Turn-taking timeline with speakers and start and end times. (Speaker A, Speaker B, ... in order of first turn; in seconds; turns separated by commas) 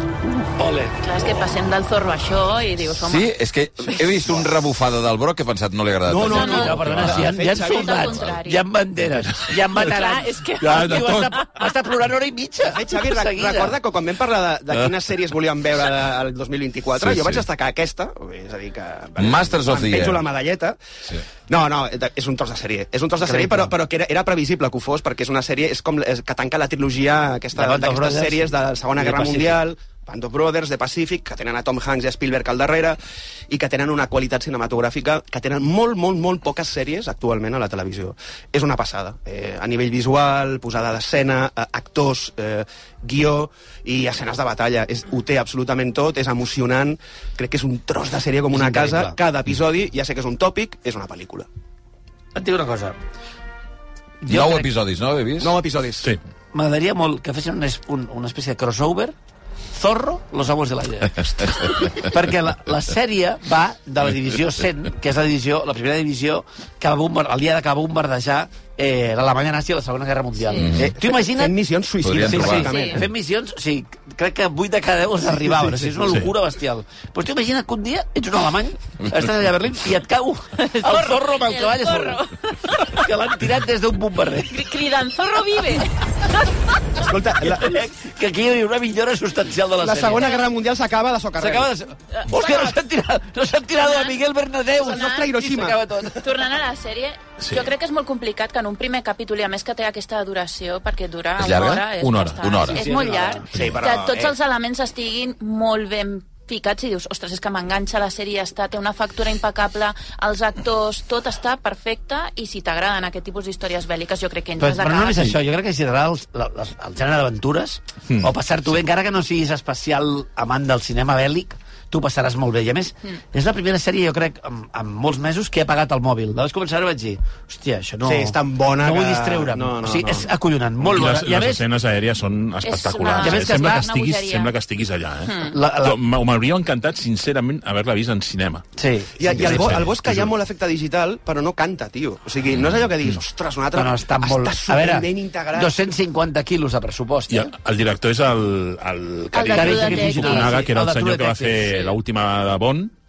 Speaker A: 0.6-0.9, Speaker B: 1.0-3.3, Speaker C: 3.0-7.3, Speaker D: 6.1-8.2, Speaker B: 6.2-6.8, Speaker A: 6.3-13.8, Speaker E: 6.8-7.3, Speaker B: 7.4-8.7, Speaker E: 9.2-9.9, Speaker B: 9.7-11.4, Speaker E: 10.6-11.4, Speaker D: 12.7-20.8, Speaker C: 16.9-17.4, Speaker C: 19.2-20.2, Speaker D: 21.5-33.0, Speaker A: 23.2-23.7, Speaker A: 27.6-29.6, Speaker D: 33.5-51.5, Speaker A: 48.5-49.2, Speaker A: 52.4-53.0, Speaker A: 54.2-54.7, Speaker C: 54.3-55.6, Speaker D: 55.4-56.1, Speaker A: 56.5-59.1, Speaker A: 59.7-71.5, Speaker C: 61.4-61.9, Speaker B: 70.4-70.8, Speaker C: 70.6-70.9, Speaker D: 70.7-73.0, Speaker C: 72.0-72.7, Speaker A: 72.1-82.2, Speaker B: 72.5-73.0, Speaker B: 80.6-83.1, Speaker A: 82.9-84.6, Speaker B: 84.5-86.5, Speaker D: 87.0-87.8, Speaker A: 87.4-90.3, Speaker D: 89.8-91.7, Speaker B: 90.1-90.4, Speaker A: 91.4-96.2, Speaker B: 92.1-92.8, Speaker B: 93.8-94.2, Speaker B: 94.8-95.3, Speaker D: 94.8-95.8, Speaker B: 96.1-115.3, Speaker E: 97.4-97.7, Speaker C: 101.4-101.9, Speaker E: 102.0-102.4, Speaker C: 102.4-102.9, Speaker A: 102.7-103.4, Speaker D: 103.5-104.4, Speaker A: 114.6-131.6, Speaker D: 128.0-130.3, Speaker E: 130.8-138.6, Speaker B: 132.6-134.5, Speaker A: 133.2-133.9, Speaker B: 135.3-135.6, Speaker A: 135.5-136.0, Speaker A: 138.8-139.8, Speaker D: 139.2-145.8, Speaker E: 139.2-140.3, Speaker A: 143.7-147.5, Speaker E: 147.3-152.9, Speaker B: 149.3-150.7, Speaker A: 149.4-151.7